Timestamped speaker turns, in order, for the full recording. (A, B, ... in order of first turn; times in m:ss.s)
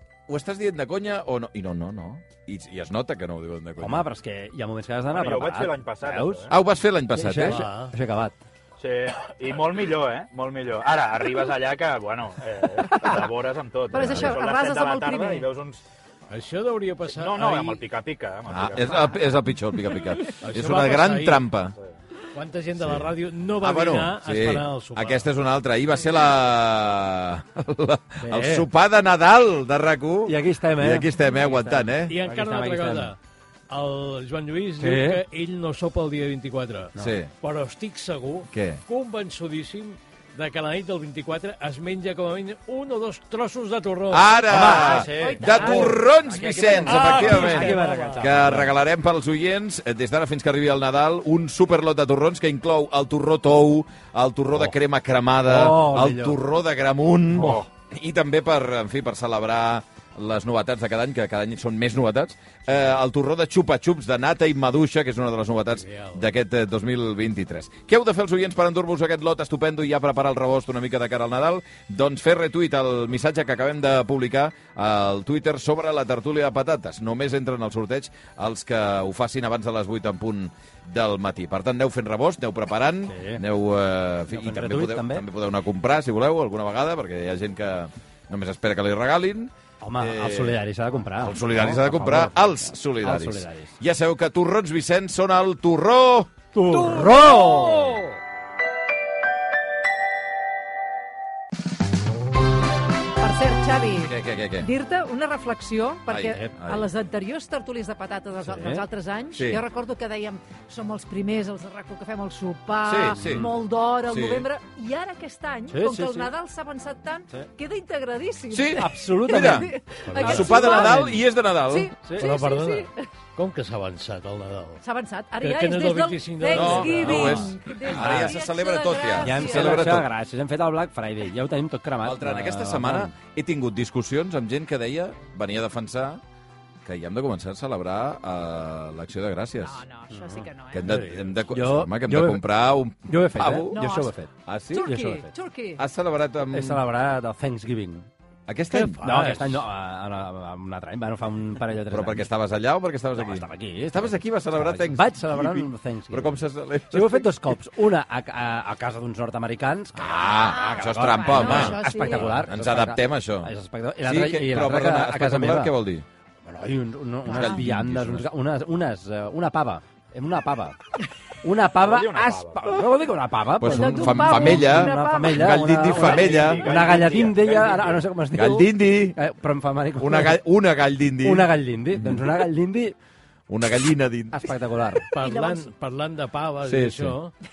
0:00.3-0:04.1 A
0:03.8-0:06.5 B
0:05.1-0:06.6 C
0:06.5-0:07.6 A
0:07.1-0:08.4 B
0:07.4-0:07.9 D
0:08.8-0:15.8 C
0:13.9-0:15.5 E
0:13.9-0:14.4 A
0:16.3-0:17.8 D
0:17.1-0:19.2 C
0:18.5-0:21.8 A
0:20.4-0:21.4 D
0:22.3-0:25.2 D
0:22.8-0:32.1 A
0:28.2-0:28.7 B
0:30.2-0:33.1 B
0:32.1-0:33.2 D
0:33.7-0:44.4 D
0:34.8-0:35.2 B
0:37.0-0:37.3 A
0:38.5-0:38.8 A
0:44.1-1:30.6 A
0:44.5-0:48.7 B
0:44.8-0:46.0 E
0:46.8-0:48.3 D
0:55.4-0:56.4 B
0:57.3-0:57.6 C
0:57.4-0:57.6 B
1:05.8-1:06.2 D
1:23.1-1:23.4 B
1:24.3-1:25.3 B
1:29.8-1:33.8 B
1:31.2-1:36.3 A
1:36.5-1:38.0 B
1:36.7-1:38.1 D
1:43.2-2:03.0 E
1:44.0-1:44.7 A
1:46.1-1:46.9 A
1:48.4-1:48.8 B
1:52.8-1:53.5 A
1:53.2-1:53.4 B
1:54.1-1:54.4 A
1:55.7-1:56.3 B
1:58.5-2:01.9 A
1:58.7-2:01.2 B
2:00.2-2:00.5 D
2:02.0-2:02.3 B
2:02.1-2:04.8 D
2:04.8-2:09.9 E
2:05.4-2:07.5 D
2:06.5-2:10.1 A
2:06.7-2:07.5 B
2:09.2-2:13.1 B
2:12.0-2:16.2 A
2:16.8-2:19.8 A
2:19.6-2:20.9 E
2:20.1-2:20.5 B
2:20.7-2:23.8 A
2:20.8-2:21.2 D
2:21.5-2:22.4 B
2:23.0-2:25.3 B
2:23.7-2:24.1 E
2:24.5-2:24.9 A
2:24.7-2:25.8 E
2:25.8-2:26.9 A
2:26.5-2:28.1 B
2:28.5-2:29.4 A
2:28.7-2:29.5 D
2:28.9-2:32.3 B
2:31.9-2:37.6 A
2:33.1-2:36.4 B
2:36.9-2:45.8 B
2:40.0-2:43.5 A
2:40.2-2:42.5 E
2:44.0-2:46.0 A
2:46.4-2:50.8 B
2:47.3-2:48.3 A
2:47.3-2:47.6 E
2:51.4-3:00.4 B
2:51.8-2:52.8 C
2:53.6-2:56.7 A
2:53.6-2:55.7 E
2:55.9-2:58.0 C
2:58.3-2:59.2 A
3:00.0-3:02.4 A
3:01.2-3:03.0 B
3:03.5-3:04.5 A
3:04.3-3:05.1 B
3:05.1-3:07.3 D
3:05.2-3:05.7 E
3:06.6-3:07.1 A